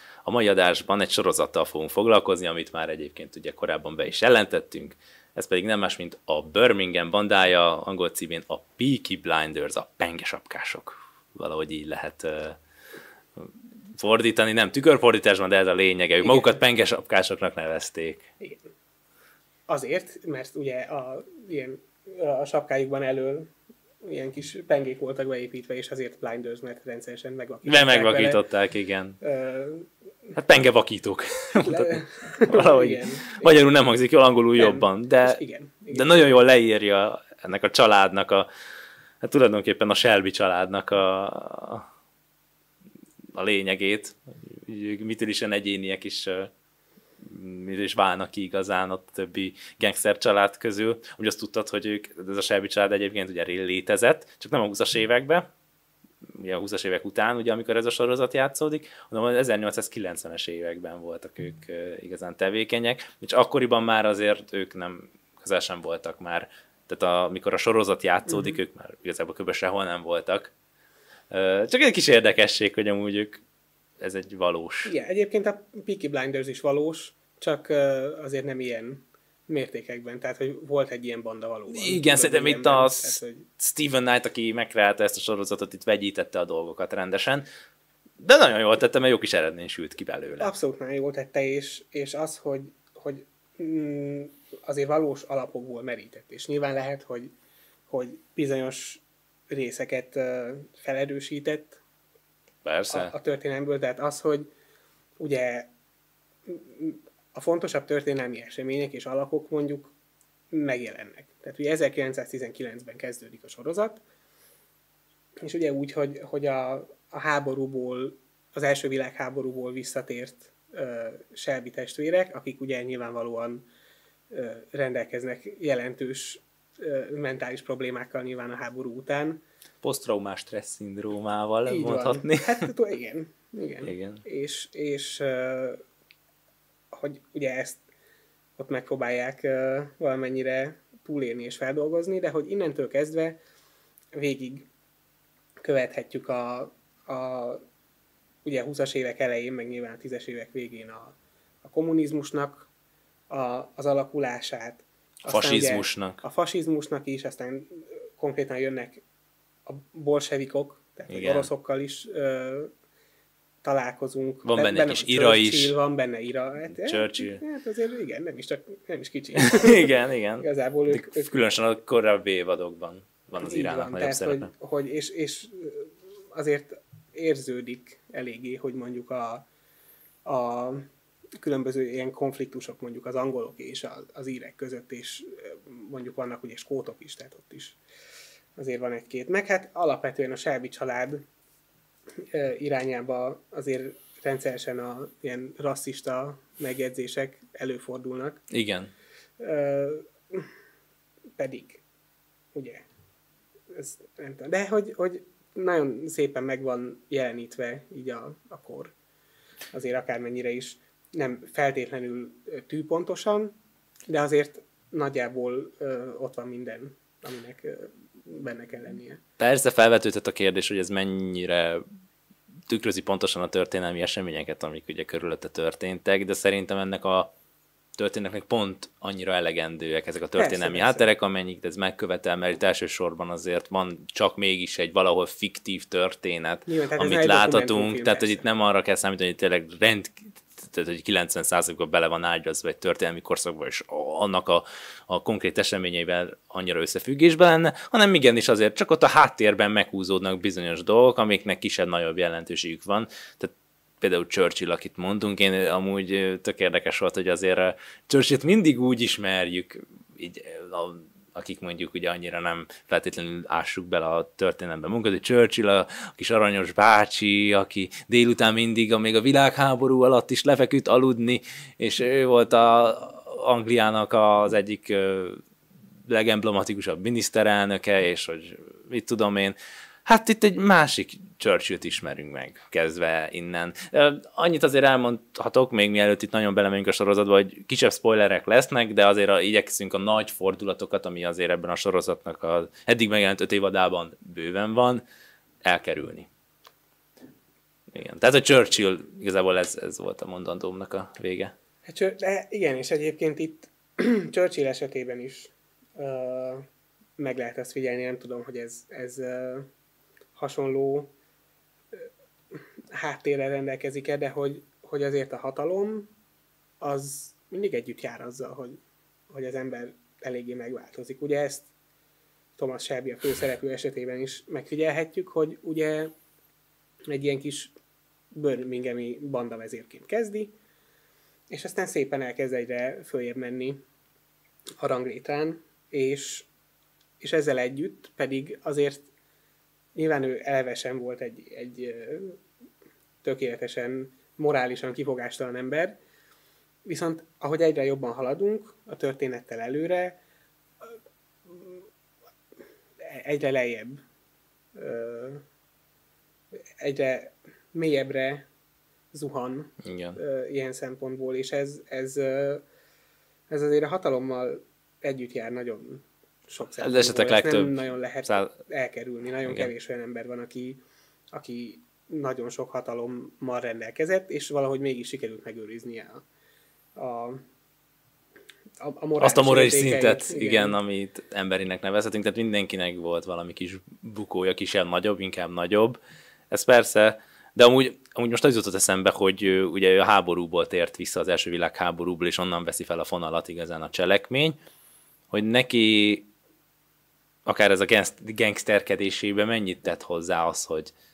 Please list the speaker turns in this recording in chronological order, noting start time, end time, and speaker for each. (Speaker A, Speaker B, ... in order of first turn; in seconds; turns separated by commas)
Speaker A: 0.2-12.6, Speaker A: 13.3-18.3, Speaker B: 16.2-16.6, Speaker B: 18.4-18.7, Speaker B: 19.7-23.5, Speaker B: 24.0-28.4, Speaker A: 27.6-29.2, Speaker B: 29.2-29.9, Speaker A: 30.3-35.4, Speaker B: 31.6-33.5, Speaker B: 34.6-36.4, Speaker A: 35.9-38.5, Speaker A: 39.2-41.9, Speaker A: 43.3-46.5, Speaker A: 47.2-55.5, Speaker A: 56.3-70.5, Speaker B: 68.3-68.6, Speaker A: 71.3-73.4, Speaker A: 74.0-74.9, Speaker B: 74.8-83.5, Speaker A: 81.7-87.5, Speaker A: 88.2-90.5, Speaker B: 90.4-97.3, Speaker B: 97.9-101.8, Speaker A: 102.6-103.1, Speaker B: 102.9-104.5, Speaker B: 105.2-105.7, Speaker B: 106.5-109.9, Speaker B: 110.5-114.0, Speaker B: 115.4-123.7, Speaker B: 124.3-129.4, Speaker A: 129.8-132.7, Speaker B: 131.7-135.8, Speaker A: 133.8-134.2, Speaker B: 136.9-137.8, Speaker B: 138.6-143.4, Speaker B: 144.2-144.7, Speaker B: 145.6-147.6, Speaker B: 148.4-152.7, Speaker B: 153.3-159.0, Speaker A: 155.3-156.2, Speaker B: 159.7-162.7, Speaker A: 161.1-161.5, Speaker B: 163.6-171.4, Speaker A: 164.4-165.8, Speaker A: 166.7-167.4, Speaker A: 169.3-174.5, Speaker B: 173.4-179.5, Speaker B: 180.2-187.8, Speaker B: 188.6-191.2, Speaker B: 192.2-198.4, Speaker A: 198.5-198.9, Speaker B: 199.4-200.5, Speaker B: 201.3-201.8, Speaker B: 202.5-202.8, Speaker B: 203.7-208.9, Speaker B: 209.7-213.6, Speaker B: 214.1-219.2, Speaker A: 219.4-221.8, Speaker A: 222.7-227.3, Speaker A: 227.9-275.4, Speaker B: 230.4-231.1, Speaker B: 236.7-238.4, Speaker A: 276.1-295.0, Speaker A: 295.6-296.3, Speaker A: 297.9-301.5, Speaker B: 301.9-306.6, Speaker B: 307.2-309.7, Speaker B: 310.4-311.1, Speaker B: 311.9-316.1, Speaker B: 316.8-321.7, Speaker B: 322.6-326.1, Speaker B: 327.1-327.7, Speaker B: 328.3-330.6, Speaker B: 331.5-333.8, Speaker B: 334.8-336.5, Speaker B: 337.2-339.1, Speaker B: 339.9-342.4, Speaker B: 343.2-346.0, Speaker B: 346.9-350.2, Speaker B: 351.4-351.9, Speaker B: 353.0-354.0, Speaker B: 354.8-355.4, Speaker B: 356.7-358.5, Speaker B: 359.1-362.6, Speaker A: 359.8-360.2, Speaker B: 363.5-376.2, Speaker A: 366.8-368.5, Speaker B: 376.9-377.4, Speaker B: 378.8-380.8, Speaker A: 379.2-386.0, Speaker A: 386.5-394.6, Speaker A: 395.3-396.3, Speaker A: 397.4-400.9